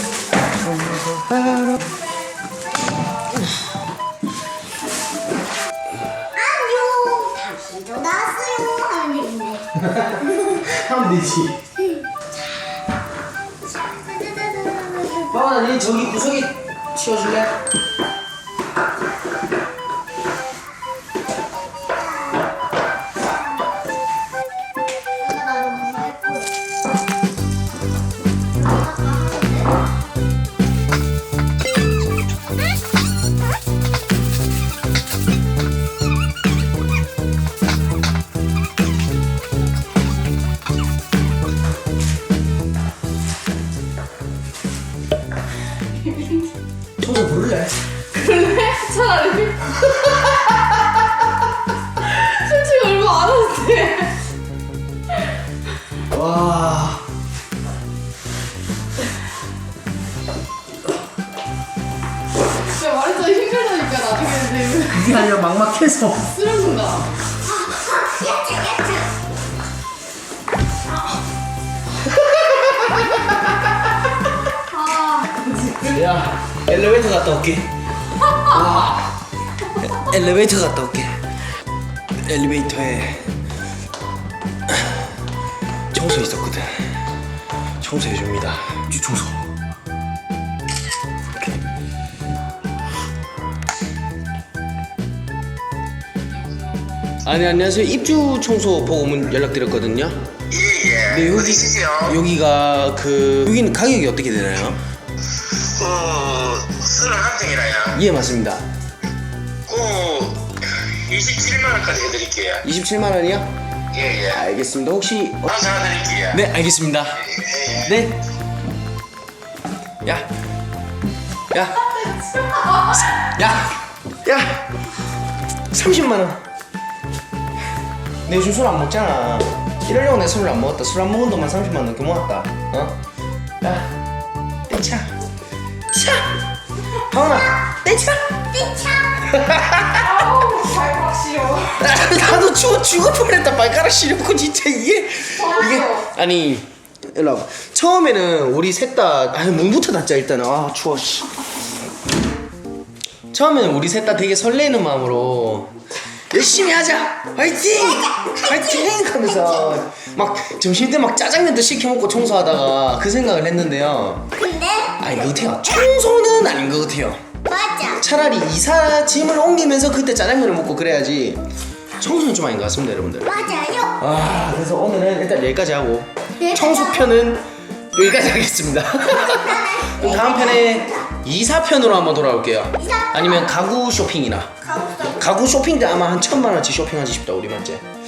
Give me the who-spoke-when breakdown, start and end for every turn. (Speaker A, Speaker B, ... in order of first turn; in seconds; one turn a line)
Speaker A: 0.6-1.9
Speaker B: 6.3-9.7
Speaker A: 9.8-11.6
Speaker B: 13.7-15.5
Speaker A: 15.3-17.5
Speaker B: 25.2-26.5
Speaker B: 28.6-29.9
Speaker C: 46.0-46.5
Speaker A: 47.0-47.8
Speaker C: 48.1-50.9
Speaker C: 52.0-54.2
Speaker A: 56.1-57.0
Speaker C: 62.6-65.3
Speaker A: 64.9-66.3
Speaker C: 66.2-67.1
Speaker B: 67.5-69.1
Speaker A: 72.3-73.0
Speaker C: 74.7-76.0
Speaker A: 75.8-77.7
Speaker A: 78.4-79.2
Speaker A: 79.7-81.2
Speaker A: 82.2-83.3
Speaker A: 84.7-85.0
Speaker A: 85.9-87.0
Speaker A: 87.8-89.4
Speaker A: 97.2-100.3
Speaker D: 100.5-102.2
Speaker A: 101.1-104.8
Speaker D: 105.3-108.0
Speaker A: 107.9-108.6
Speaker D: 109.7-112.6
Speaker A: 112.6-113.5
Speaker D: 113.9-114.4
Speaker A: 114.3-115.6
Speaker D: 115.5-116.4
Speaker A: 116.3-118.2
Speaker D: 117.3-117.9
Speaker A: 120.0-120.3
Speaker A: 121.5-121.9
Speaker A: 122.7-124.7
Speaker A: 125.7-126.4
Speaker A: 128.3-133.0
Speaker A: 133.6-133.9
Speaker A: 134.7-135.1
Speaker A: 135.9-136.4
Speaker A: 137.1-138.3
Speaker B: 137.3-137.7
Speaker B: 138.5-139.7
Speaker A: 139.3-140.1
Speaker C: 139.9-141.8
Speaker A: 141.8-151.3
Speaker C: 145.4-146.1
Speaker A: 153.3-155.8
Speaker A: 156.3-164.3
Speaker B: 157.7-159.8
Speaker B: 164.4-165.3
Speaker A: 165.0-167.2
Speaker B: 167.5-168.0
Speaker A: 168.0-171.4
Speaker A: 172.0-173.3
Speaker B: 173.2-174.0
Speaker A: 174.0-184.6
Speaker B: 176.4-177.1
Speaker B: 179.2-181.1
Speaker B: 182.8-183.6
Speaker B: 184.6-185.3
Speaker A: 185.2-187.8